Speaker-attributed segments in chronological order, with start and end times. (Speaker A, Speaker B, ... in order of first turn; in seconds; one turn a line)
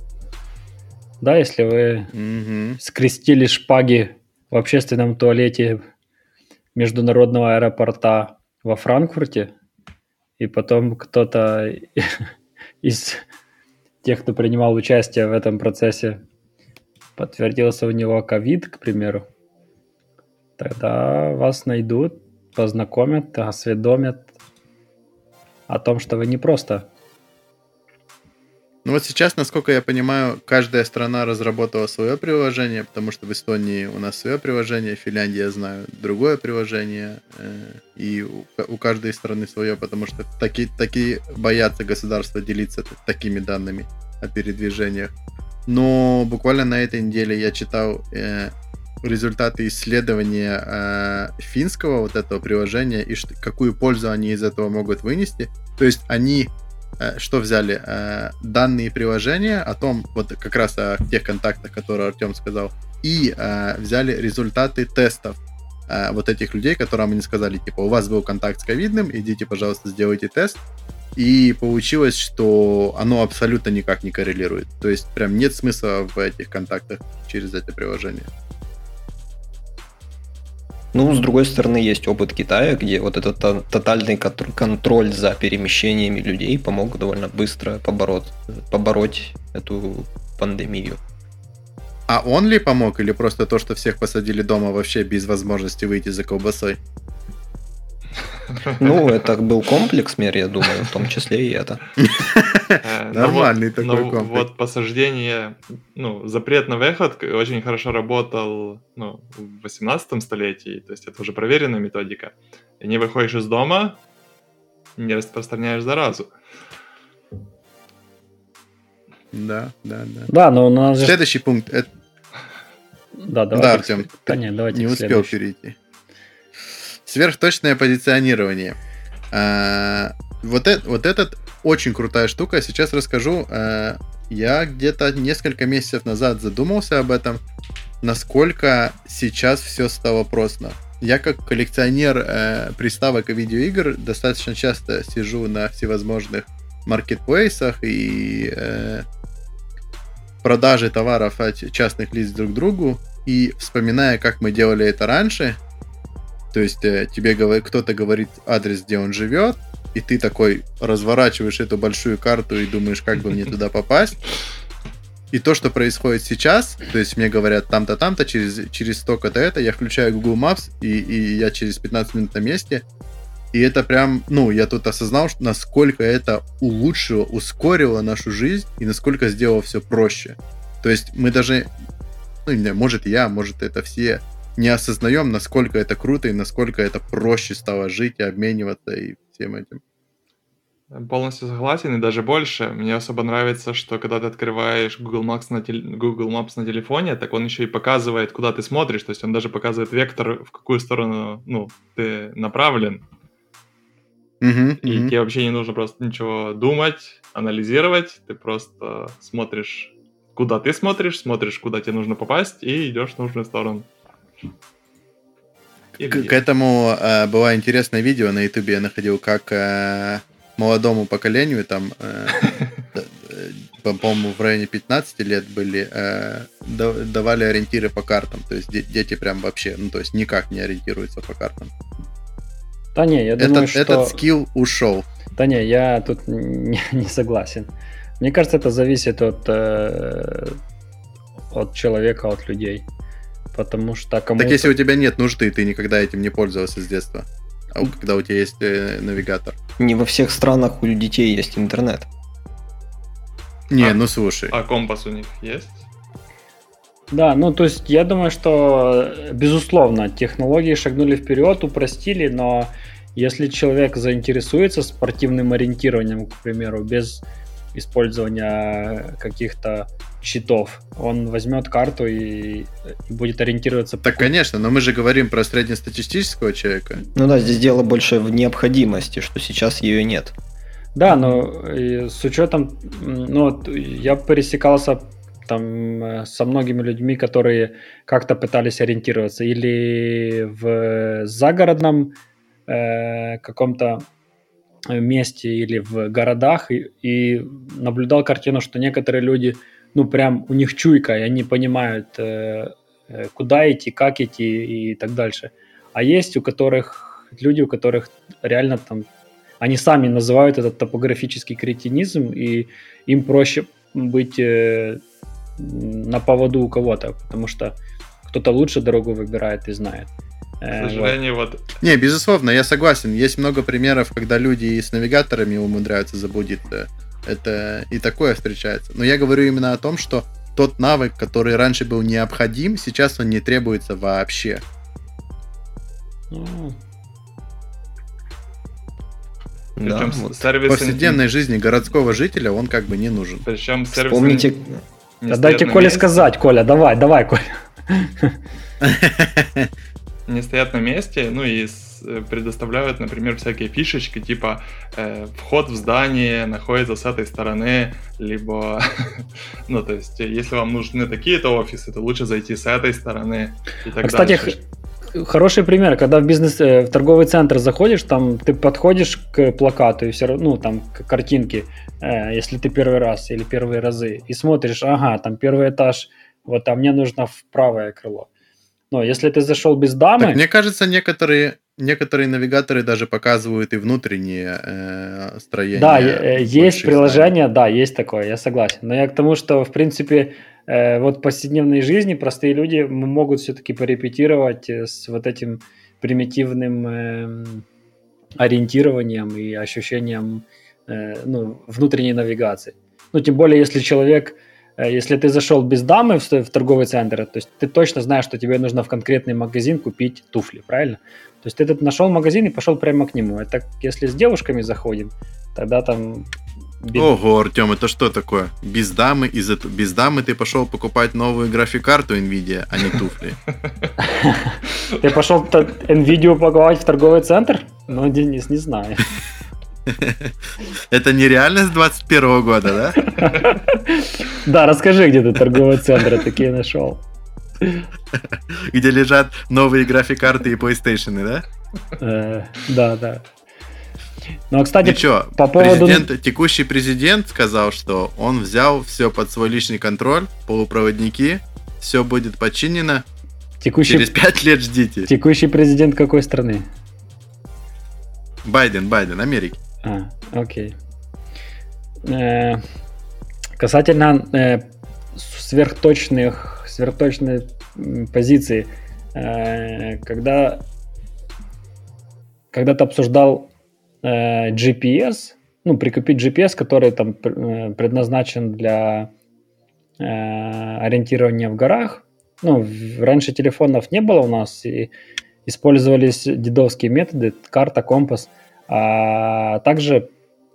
Speaker A: 1.2-2.1
Speaker B: 2.1-2.8
Speaker A: 2.8-5.8
Speaker A: 6.8-9.5
Speaker A: 10.4-12.3
Speaker A: 12.8-13.2
Speaker A: 14.0-16.2
Speaker A: 17.2-19.2
Speaker A: 20.6-24.3
Speaker A: 25.7-26.9
Speaker B: 28.9-45.1
Speaker B: 45.7-70.6
Speaker B: 71.2-78.3
Speaker C: 80.9-91.0
Speaker B: 92.1-96.8
Speaker C: 98.8-101.8
Speaker B: 102.0-104.5
Speaker D: 102.8-114.0
Speaker D: 115.0-116.3
Speaker B: 119.3-120.3
Speaker A: 120.3-121.2
Speaker B: 121.0-121.9
Speaker A: 123.2-125.4
Speaker B: 123.5-125.8
Speaker B: 127.0-128.8
Speaker B: 129.3-137.4
Speaker B: 138.0-149.1
Speaker B: 150.4-155.6
Speaker B: 156.5-164.2
Speaker B: 165.3-172.8
Speaker B: 173.5-181.7
Speaker B: 182.5-189.8
Speaker D: 190.9-203.0
Speaker B: 204.4-205.1
Speaker D: 204.8-213.9
Speaker D: 216.0-216.4
Speaker B: 216.1-231.7
Speaker A: 232.9-234.2
Speaker B: 233.4-235.1
Speaker A: 235.4-240.6
Speaker A: 241.5-242.9
Speaker A: 243.5-244.7
Speaker B: 244.4-249.6
Speaker C: 249.8-252.1
Speaker B: 253.7-254.5
Speaker D: 254.5-255.8
Speaker A: 257.1-267.2
Speaker A: 267.7-274.3
Speaker B: 274.0-277.0
Speaker C: 277.1-280.3
Speaker A: 280.9-292.1
Speaker A: 292.7-294.1
Speaker A: 294.9-309.1
Speaker A: 309.6-315.0
Speaker A: 315.6-317.8
Speaker A: 318.3-320.1
Speaker A: 320.6-321.2
Speaker D: 320.8-321.6
Speaker B: 321.8-334.6
Speaker A: 336.3-336.8
Speaker C: 339.8-340.5
Speaker D: 339.8-341.2
Speaker B: 340.7-343.4
Speaker D: 343.4-344.5
Speaker C: 343.9-344.8
Speaker D: 345.2-346.2
Speaker A: 345.3-348.4
Speaker B: 348.8-349.7
Speaker D: 350.3-364.6
Speaker A: 364.0-364.6
Speaker A: 365.1-378.3
Speaker A: 378.9-380.4
Speaker B: 380.2-387.3
Speaker A: 385.8-397.6
Speaker A: 398.4-417.1
Speaker B: 417.0-423.4
Speaker A: 424.0-429.1
Speaker B: 429.9-430.3
Speaker B: 430.9-433.4
Speaker A: 433.2-437.0
Speaker B: 438.3-441.4
Speaker A: 442.0-443.2
Speaker A: 444.5-446.1
Speaker B: 444.8-453.1
Speaker A: 453.6-454.1
Speaker B: 453.9-455.1
Speaker A: 455.1-456.7
Speaker B: 458.4-459.6
Speaker A: 459.8-460.8
Speaker A: 462.0-462.6
Speaker A: 463.6-470.6
Speaker A: 472.5-473.5
Speaker A: 474.0-479.1
Speaker A: 480.0-484.9
Speaker A: 485.5-490.1